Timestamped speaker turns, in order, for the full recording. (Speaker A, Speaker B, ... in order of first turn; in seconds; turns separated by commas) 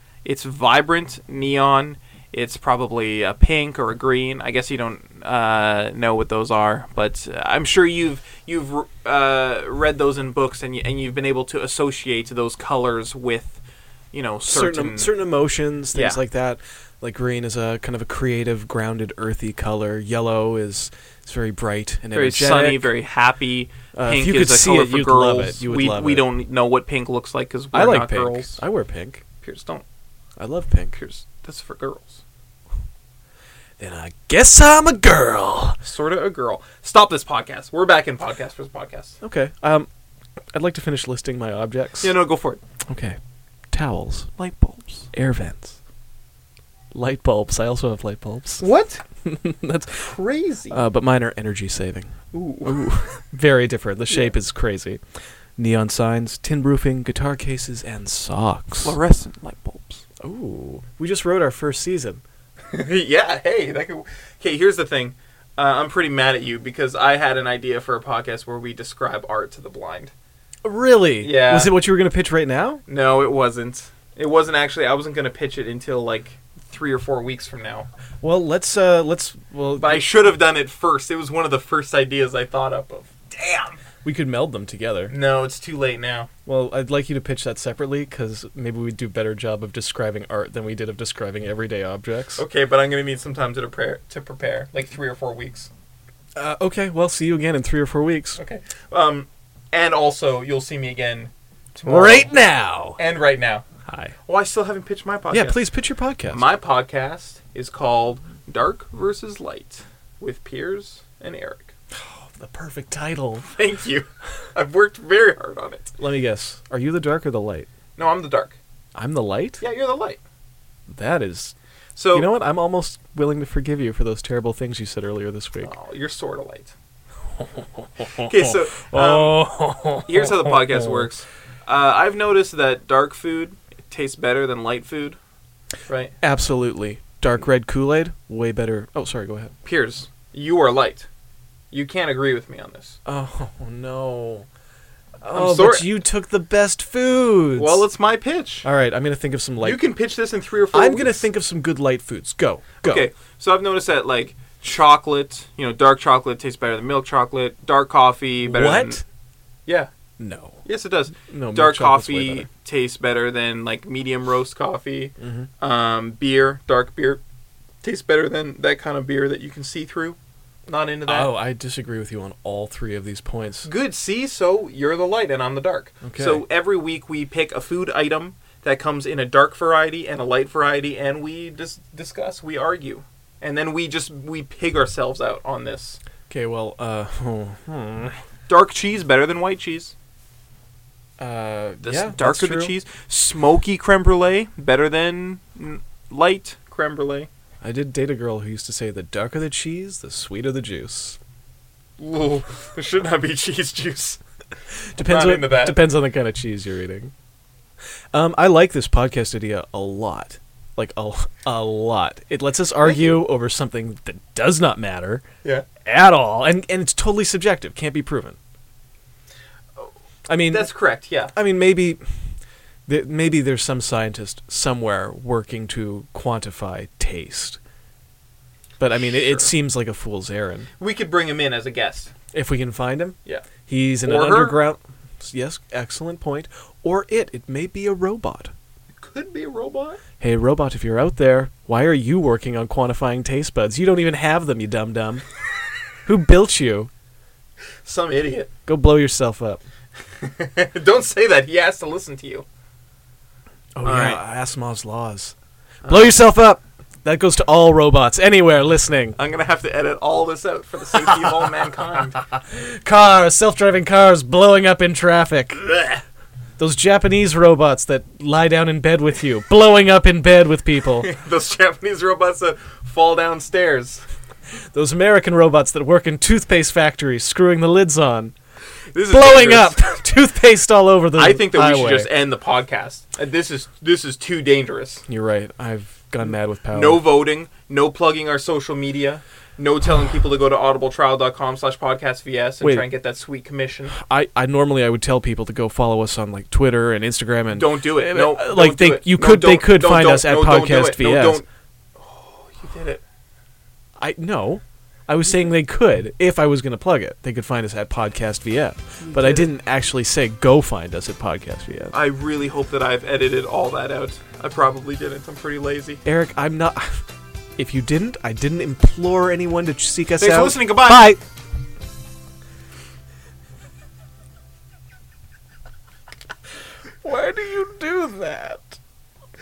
Speaker A: 0.2-13.6, Speaker A: 14.1-15.1, Speaker B: 14.4-22.9, Speaker A: 15.9-16.2, Speaker A: 22.1-28.6, Speaker B: 23.9-26.3, Speaker B: 27.7-29.2, Speaker A: 29.4-29.8, Speaker B: 30.4-31.0, Speaker A: 30.9-32.2, Speaker B: 33.8-35.8, Speaker A: 35.8-39.2, Speaker B: 39.2-39.9, Speaker B: 40.5-42.1, Speaker A: 42.0-42.6, Speaker B: 42.9-43.2, Speaker B: 43.7-44.3, Speaker A: 44.4-45.1, Speaker B: 45.1-45.7, Speaker B: 46.9-48.6, Speaker A: 48.6-49.0, Speaker B: 49.2-50.1, Speaker A: 49.9-50.8, Speaker B: 50.7-55.0, Speaker A: 52.3-53.1, Speaker A: 54.1-54.3, Speaker B: 55.6-59.0, Speaker A: 58.8-60.0, Speaker B: 60.2-62.2, Speaker A: 62.7-70.1, Speaker B: 70.6-72.8, Speaker A: 71.2-71.7, Speaker A: 72.9-77.9, Speaker B: 78.2-80.1, Speaker A: 79.8-83.8, Speaker B: 84.0-85.1, Speaker A: 85.1-86.3, Speaker B: 86.5-92.4, Speaker A: 92.3-95.7, Speaker B: 96.3-98.4, Speaker A: 98.4-102.4, Speaker B: 101.8-103.0, Speaker A: 103.0-103.6, Speaker B: 103.8-104.1, Speaker A: 104.2-105.6, Speaker B: 105.3-106.5, Speaker A: 106.3-111.7, Speaker B: 111.9-113.5, Speaker A: 113.5-115.9, Speaker B: 116.0-117.7, Speaker A: 118.0-118.6, Speaker B: 118.9-119.6, Speaker A: 119.6-120.2, Speaker B: 120.9-121.5, Speaker A: 122.0-122.3, Speaker B: 122.1-125.7, Speaker A: 125.6-126.7, Speaker A: 128.1-129.4, Speaker B: 128.4-131.1, Speaker A: 130.0-135.2, Speaker A: 135.9-136.1, Speaker B: 136.2-139.5, Speaker A: 139.6-141.1, Speaker A: 141.7-143.0, Speaker B: 143.1-144.5, Speaker B: 145.2-147.9, Speaker A: 145.3-145.9, Speaker A: 147.6-148.7, Speaker B: 148.6-149.8, Speaker A: 149.6-151.2, Speaker B: 150.7-153.1, Speaker A: 152.8-159.0, Speaker B: 158.4-159.0, Speaker B: 160.2-160.6, Speaker A: 160.6-167.2, Speaker B: 161.2-162.5, Speaker B: 165.2-165.5, Speaker A: 167.8-171.3, Speaker B: 171.1-173.7, Speaker A: 173.6-186.0, Speaker B: 176.0-176.4, Speaker B: 186.3-188.2, Speaker A: 188.5-189.9, Speaker B: 191.2-192.8, Speaker A: 191.8-197.3, Speaker B: 197.6-201.2, Speaker A: 202.0-204.2, Speaker A: 204.9-205.9, Speaker B: 205.0-207.1, Speaker B: 208.1-215.2, Speaker A: 212.8-213.2, Speaker B: 215.8-218.4, Speaker A: 219.8-221.3, Speaker B: 220.3-220.7, Speaker B: 221.3-222.0, Speaker B: 222.9-227.6, Speaker B: 228.8-230.7, Speaker A: 229.0-229.5, Speaker A: 230.8-232.1, Speaker B: 232.3-238.5, Speaker A: 234.0-234.6, Speaker A: 239.0-240.0, Speaker B: 240.2-245.2, Speaker B: 246.1-246.9, Speaker A: 247.8-248.5, Speaker B: 248.7-249.6, Speaker A: 250.2-252.4, Speaker B: 253.8-255.3, Speaker A: 253.8-254.2, Speaker A: 255.8-256.2, Speaker B: 255.8-259.2, Speaker A: 259.2-262.2, Speaker B: 262.3-265.7, Speaker B: 266.6-271.1, Speaker A: 270.9-274.0, Speaker B: 274.7-278.3, Speaker A: 278.9-279.9, Speaker B: 279.1-282.1, Speaker A: 281.1-285.0, Speaker B: 285.1-287.0, Speaker A: 286.7-293.9, Speaker B: 292.6-292.9, Speaker B: 293.9-301.4, Speaker A: 297.5-303.0, Speaker B: 304.0-311.9, Speaker A: 309.0-309.5, Speaker A: 311.9-316.0, Speaker B: 316.0-317.0, Speaker B: 317.6-321.2, Speaker A: 320.2-321.1, Speaker B: 327.0-328.8